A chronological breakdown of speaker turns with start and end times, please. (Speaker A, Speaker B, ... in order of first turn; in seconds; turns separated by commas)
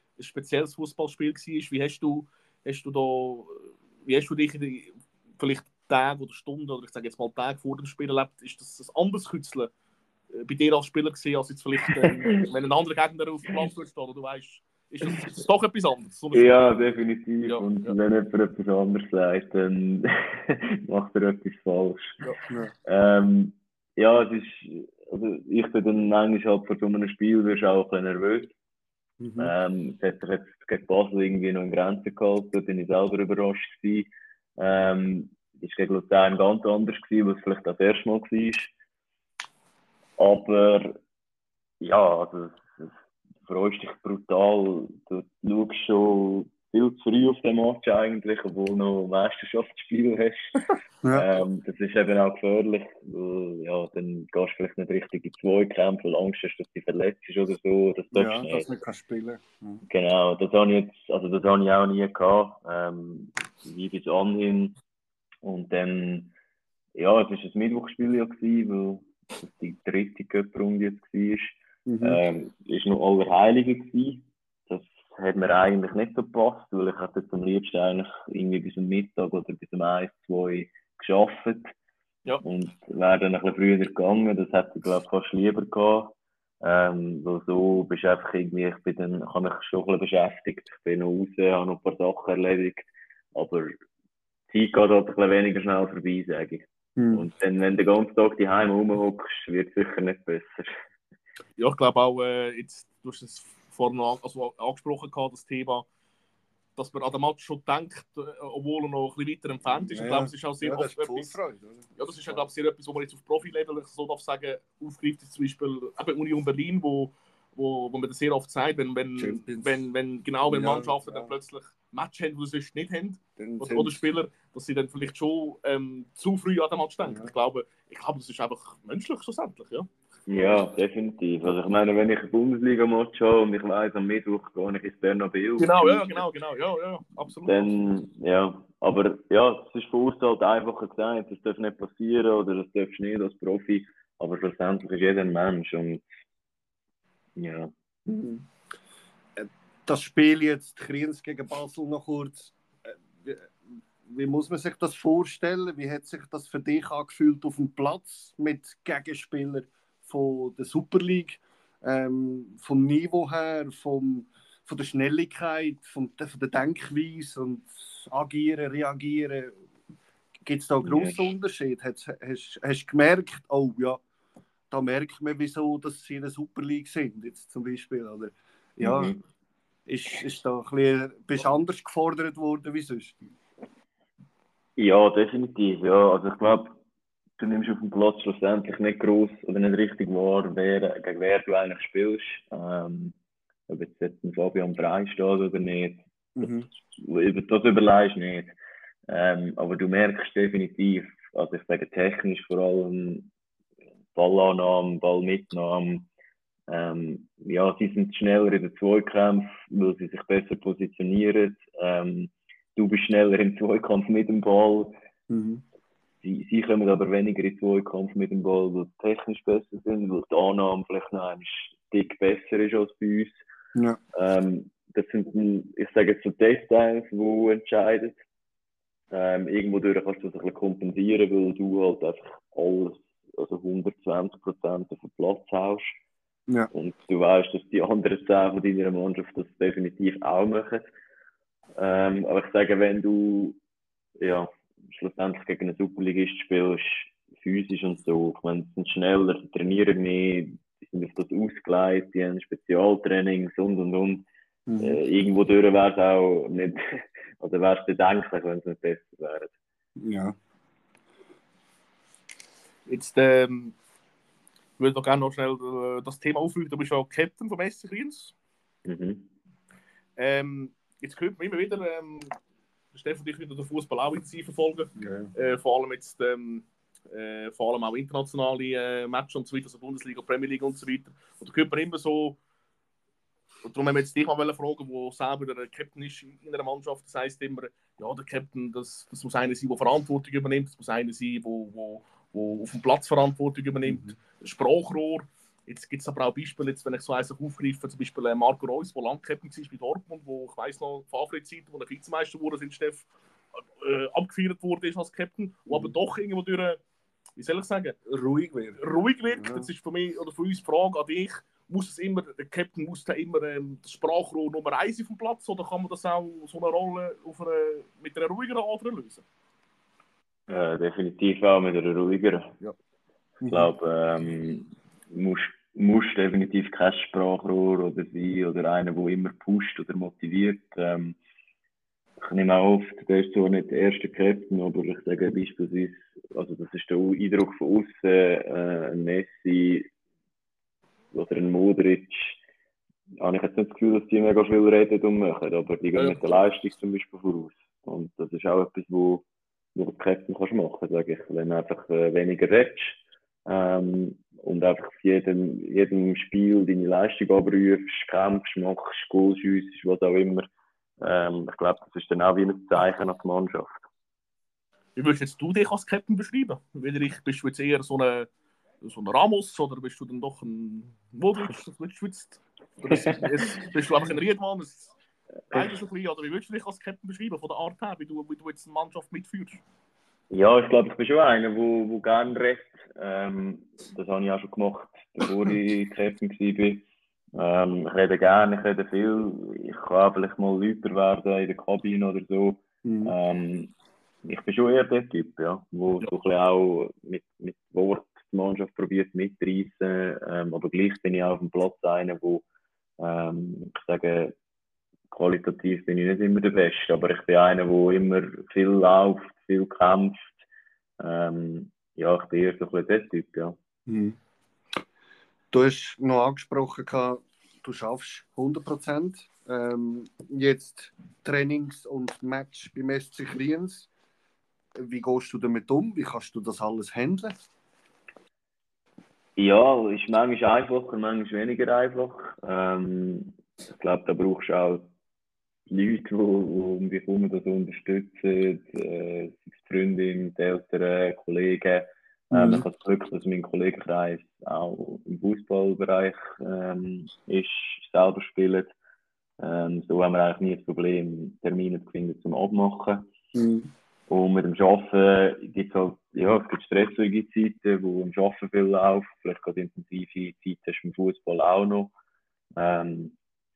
Speaker A: 0.2-9.7, Speaker A: 10.3-16.6, Speaker B: 16.3-22.2, Speaker A: 17.5-18.0, Speaker C: 22.5-22.7, Speaker B: 22.8-28.5, Speaker C: 29.2-29.5, Speaker B: 29.4-38.7, Speaker B: 40.2-41.0, Speaker B: 41.8-42.9, Speaker B: 43.4-50.6, Speaker C: 51.0-51.3, Speaker B: 51.1-58.7, Speaker C: 58.1-59.9, Speaker B: 59.9-64.8, Speaker B: 65.4-66.3, Speaker B: 66.9-81.7, Speaker C: 71.8-72.2, Speaker B: 82.4-93.8, Speaker B: 94.5-100.7, Speaker C: 97.0-97.3, Speaker A: 101.6-105.8, Speaker A: 106.8-111.4, Speaker C: 109.9-112.4, Speaker A: 112.0-130.6, Speaker C: 119.2-119.7, Speaker C: 120.5-121.3, Speaker C: 123.4-124.0, Speaker C: 127.0-127.3, Speaker B: 130.3-136.2, Speaker A: 135.6-137.7, Speaker B: 137.4-146.1, Speaker B: 147.4-147.7, Speaker C: 148.1-148.4, Speaker C: 149.3-169.6, Speaker C: 170.4-174.0, Speaker B: 170.8-171.3, Speaker C: 174.7-179.2, Speaker B: 178.8-179.2, Speaker C: 179.9-183.2, Speaker B: 184.8-186.8, Speaker B: 187.4-193.1, Speaker B: 193.7-196.0, Speaker C: 196.3-196.7, Speaker B: 196.9-198.5, Speaker B: 199.1-203.3, Speaker B: 204.1-206.1, Speaker B: 206.7-214.9, Speaker C: 215.3-215.6, Speaker B: 216.2-223.4, Speaker B: 224.1-228.2, Speaker B: 229.1-235.9, Speaker B: 236.7-240.9, Speaker B: 241.7-243.6, Speaker B: 244.2-254.2, Speaker C: 254.7-255.0, Speaker B: 254.8-259.5, Speaker C: 260.0-260.4, Speaker A: 262.9-263.7, Speaker A: 264.8-268.3, Speaker B: 268.9-269.3, Speaker A: 270.2-272.4, Speaker A: 272.9-282.4, Speaker C: 274.9-275.3, Speaker A: 283.6-303.1, Speaker C: 293.8-294.1, Speaker A: 303.8-306.8, Speaker C: 305.7-305.9, Speaker A: 307.4-308.0, Speaker C: 308.1-309.7, Speaker A: 308.8-319.2, Speaker B: 320.5-322.6, Speaker C: 323.4-323.7, Speaker B: 323.5-331.1, Speaker B: 332.2-339.9, Speaker B: 341.1-342.4, Speaker B: 343.2-360.5, Speaker A: 345.9-346.3, Speaker B: 361.0-363.8, Speaker A: 364.9-368.3, Speaker A: 368.8-374.9, Speaker B: 372.9-373.4, Speaker A: 375.5-379.6, Speaker B: 380.3-386.8, Speaker B: 387.3-393.7, Speaker C: 392.8-393.1, Speaker B: 394.2-402.4, Speaker B: 403.0-404.3, Speaker B: 405.1-410.4, Speaker B: 411.0-413.6, Speaker C: 413.9-414.2, Speaker C: 415.5-423.9, Speaker C: 424.8-427.4, Speaker B: 429.4-434.9, Speaker B: 435.7-448.7, Speaker C: 442.3-442.6, Speaker B: 449.4-453.1, Speaker C: 453.3-453.7, Speaker B: 454.1-461.9, Speaker B: 462.6-463.1